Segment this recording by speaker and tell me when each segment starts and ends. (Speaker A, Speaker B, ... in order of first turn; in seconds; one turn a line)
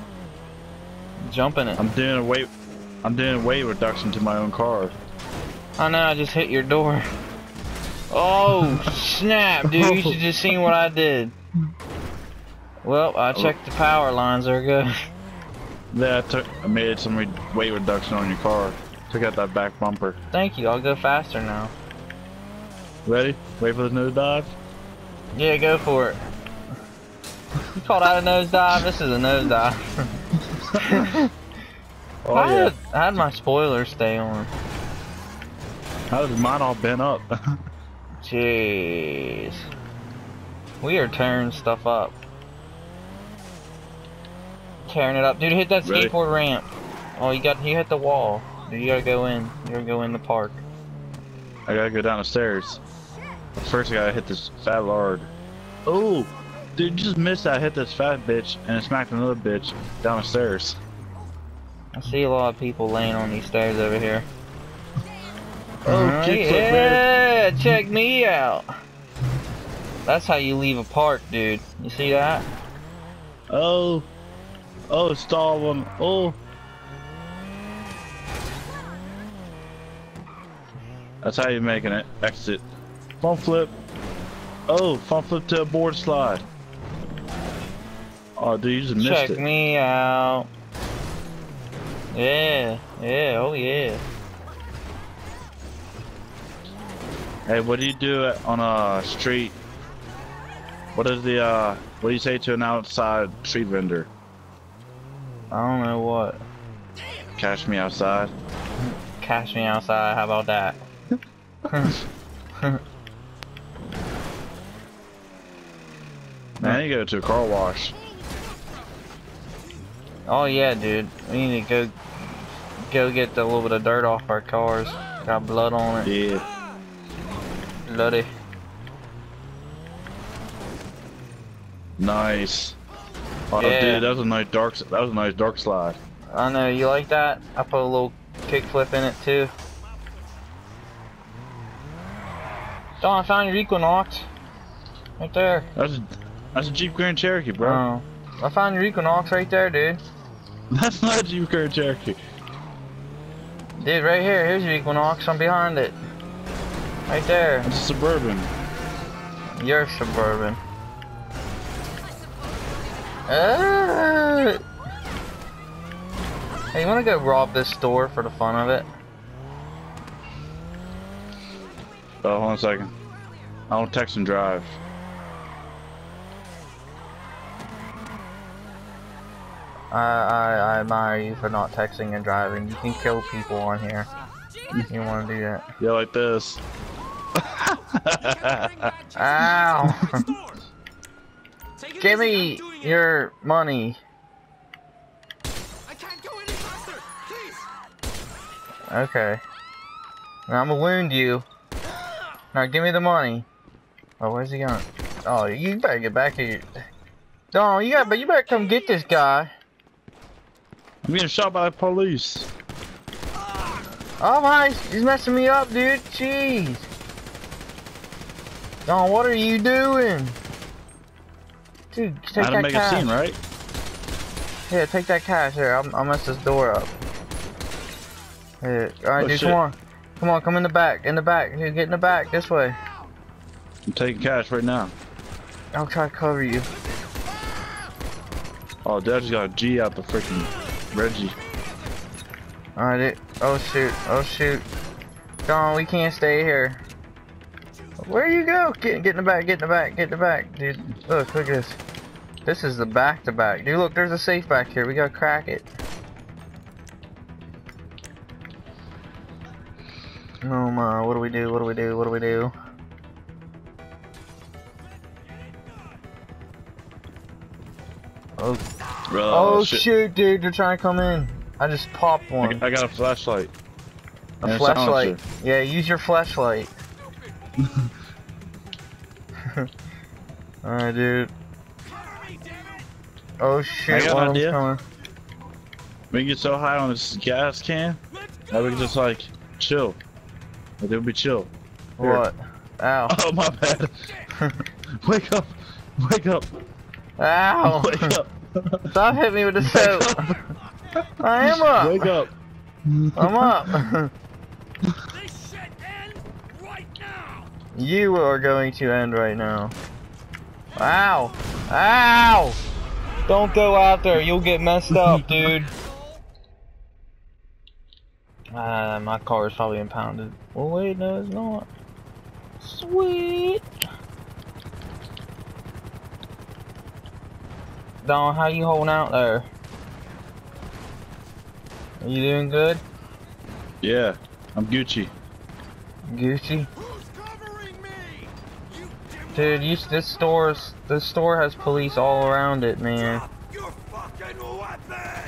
Speaker A: 1.2-1.9
Speaker B: 1.8-2.5
Speaker B: 3.0-5.0
Speaker A: 5.8-7.0
Speaker A: 8.1-11.3
Speaker B: 9.7-10.2
Speaker A: 12.8-14.9
Speaker B: 15.9-20.2
Speaker A: 20.3-21.7
Speaker B: 23.1-24.6
Speaker A: 25.3-26.2
Speaker A: 27.8-29.8
Speaker B: 30.5-31.1
Speaker A: 30.8-31.3
Speaker B: 32.2-32.8
Speaker A: 32.3-34.5
Speaker B: 36.1-37.3
Speaker A: 38.2-39.6
Speaker A: 40.8-42.2
Speaker A: 44.9-50.6
Speaker B: 45.8-46.1
Speaker B: 51.7-52.8
Speaker B: 53.6-55.3
Speaker B: 55.9-60.8
Speaker A: 62.0-64.3
Speaker B: 65.9-67.1
Speaker A: 65.9-68.6
Speaker A: 70.1-72.5
Speaker B: 73.5-74.1
Speaker B: 74.9-76.4
Speaker B: 81.2-82.7
Speaker B: 83.2-83.8
Speaker B: 84.7-86.5
Speaker B: 88.4-89.4
Speaker A: 88.9-90.5
Speaker A: 92.1-94.0
Speaker B: 97.5-99.6
Speaker B: 100.9-104.1
Speaker A: 105.5-106.4
Speaker B: 107.3-108.3
Speaker A: 108.8-110.8
Speaker A: 111.7-112.0
Speaker B: 116.6-118.0
Speaker A: 120.3-126.1
Speaker B: 126.0-126.5
Speaker A: 127.9-128.3
Speaker B: 132.0-132.8
Speaker B: 133.5-136.0
Speaker A: 133.6-134.1
Speaker A: 136.3-139.5
Speaker A: 143.0-144.3
Speaker A: 145.2-145.7
Speaker B: 145.8-147.8
Speaker A: 147.6-150.0
Speaker B: 150.7-152.2
Speaker A: 153.8-156.0
Speaker A: 157.1-157.7
Speaker B: 157.6-158.5
Speaker A: 159.6-160.6
Speaker A: 163.3-164.6
Speaker A: 166.7-168.9
Speaker B: 172.2-172.9
Speaker B: 173.7-174.8
Speaker A: 179.9-184.1
Speaker A: 184.9-185.7
Speaker B: 185.8-186.6
Speaker B: 187.4-188.9
Speaker A: 189.1-190.3
Speaker A: 191.9-194.0
Speaker A: 198.9-199.4
Speaker A: 200.5-201.4
Speaker A: 202.5-203.5
Speaker A: 204.2-206.7
Speaker A: 207.5-209.5
Speaker B: 211.0-212.5
Speaker A: 214.2-216.9
Speaker A: 218.9-220.4
Speaker A: 221.9-223.2
Speaker B: 222.3-223.4
Speaker A: 224.7-226.9
Speaker A: 228.6-232.8
Speaker B: 229.2-229.6
Speaker B: 233.9-234.9
Speaker A: 235.8-236.7
Speaker B: 238.8-241.4
Speaker A: 242.8-244.7
Speaker A: 245.5-246.8
Speaker A: 248.0-251.8
Speaker A: 252.5-255.7
Speaker A: 260.4-262.5
Speaker A: 268.4-268.6
Speaker B: 269.1-269.9
Speaker A: 269.3-272.6
Speaker B: 272.4-273.5
Speaker A: 274.4-276.7
Speaker B: 274.4-275.2
Speaker B: 277.6-277.9
Speaker A: 280.6-281.3
Speaker A: 283.4-284.8
Speaker B: 283.9-284.6
Speaker B: 286.1-290.0
Speaker B: 290.8-292.2
Speaker A: 292.0-293.2
Speaker B: 293.1-294.1
Speaker A: 294.3-294.6
Speaker B: 295.0-296.5
Speaker A: 297.2-298.2
Speaker B: 297.6-298.9
Speaker A: 298.9-300.3
Speaker B: 299.6-300.4
Speaker A: 301.2-302.1
Speaker B: 301.4-302.3
Speaker B: 302.9-303.7
Speaker A: 303.2-304.1
Speaker A: 307.8-309.8
Speaker A: 310.8-312.6
Speaker A: 313.3-315.7
Speaker A: 318.5-321.7
Speaker A: 322.6-323.6
Speaker A: 328.0-329.5
Speaker A: 332.0-332.8
Speaker B: 333.8-335.1
Speaker A: 336.1-336.7
Speaker A: 339.3-343.2